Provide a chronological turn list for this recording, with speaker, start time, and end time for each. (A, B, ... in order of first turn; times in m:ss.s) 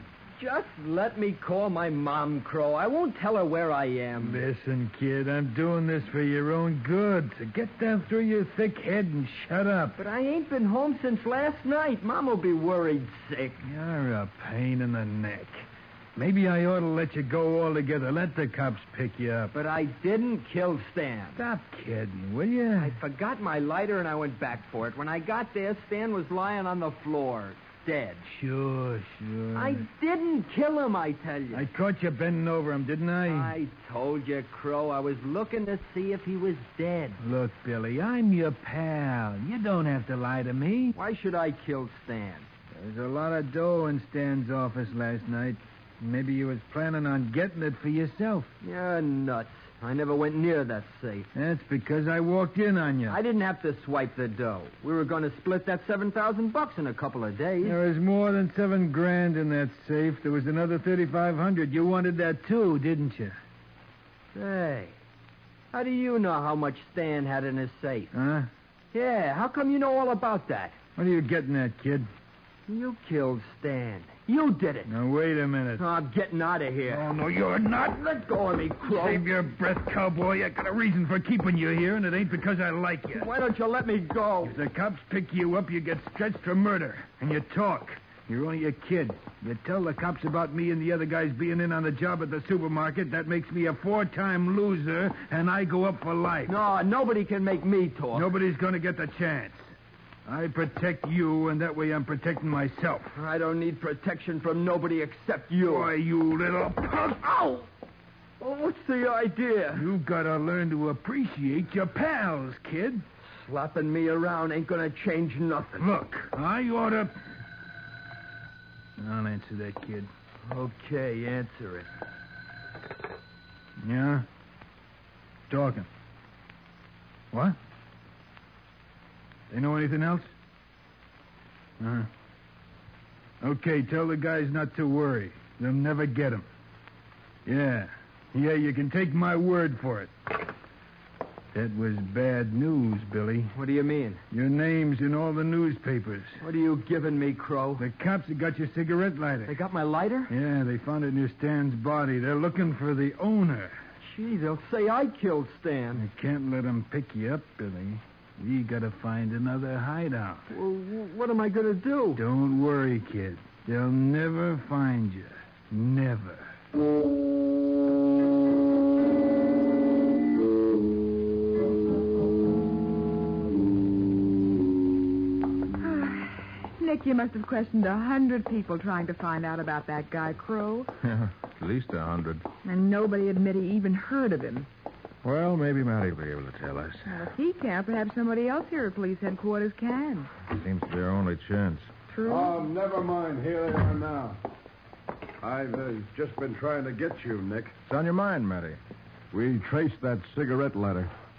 0:00.4-0:04.4 A
0:04.2-0:10.0 B
0:10.0-0:13.6 A
0:13.6-0:19.5 B
0:19.5-0:21.4 A
0:21.4-0:23.0 B
0:22.8-0:28.2 A
0:28.2-0:29.8 B
0:29.5-0:31.7 A
0:31.5-0:33.5 B
0:33.2-0:37.2 A
0:37.2-0:40.9 B
0:40.9-0:42.5 A
0:42.7-0:48.5 B
0:48.6-0:51.3 A
0:51.3-0:53.2 B
0:53.1-0:57.8 A
0:57.6-1:03.4 B
1:04.3-1:05.0 A
1:05.7-1:08.1 A
1:08.1-1:08.5 B
1:08.9-1:10.8 A
1:11.0-1:12.1 B
1:12.7-1:14.9 A
1:14.8-1:15.8 B
1:15.8-1:17.1 A
1:16.9-1:18.1 B
1:18.0-1:19.2 A
1:18.8-1:23.3 B
1:23.1-1:24.6 A
1:24.4-1:36.5 B
1:36.4-1:38.3 A
1:38.1-1:39.7 B
1:40.2-1:43.1 B
1:43.1-1:45.9 A
1:45.6-1:47.6 B
1:48.4-1:49.9 A
1:49.7-1:53.0 B
1:53.3-1:55.9 A
1:55.8-1:57.1 B
1:59.0-2:00.1 B
2:00.4-2:01.9 A
2:03.8-2:04.2 B
2:05.5-2:05.9 B
2:07.3-2:07.6 B
2:09.5-2:10.3 B
2:11.8-2:12.1 B
2:13.4-2:16.4 B
2:17.4-2:20.1 B
2:21.5-2:23.5 B
2:23.5-2:24.2 A
2:24.3-2:26.4 B
2:26.4-2:27.9 A
2:27.8-2:29.5 B
2:29.4-2:30.3 A
2:30.3-2:33.8 B
2:34.0-2:36.0 A
2:36.0-2:40.4 B
2:40.5-2:42.2 A
2:42.2-2:46.5 B
2:55.8-3:00.9 C
3:01.0-3:02.4 D
3:02.6-3:04.7 C
3:05.2-3:07.3 D
3:07.0-3:10.3 C
3:10.5-3:11.9 D
3:12.1-3:12.5 C
3:12.2-3:14.4 E
3:15.4-3:17.7 E
3:17.9-3:18.8 D
3:19.3-3:21.1 E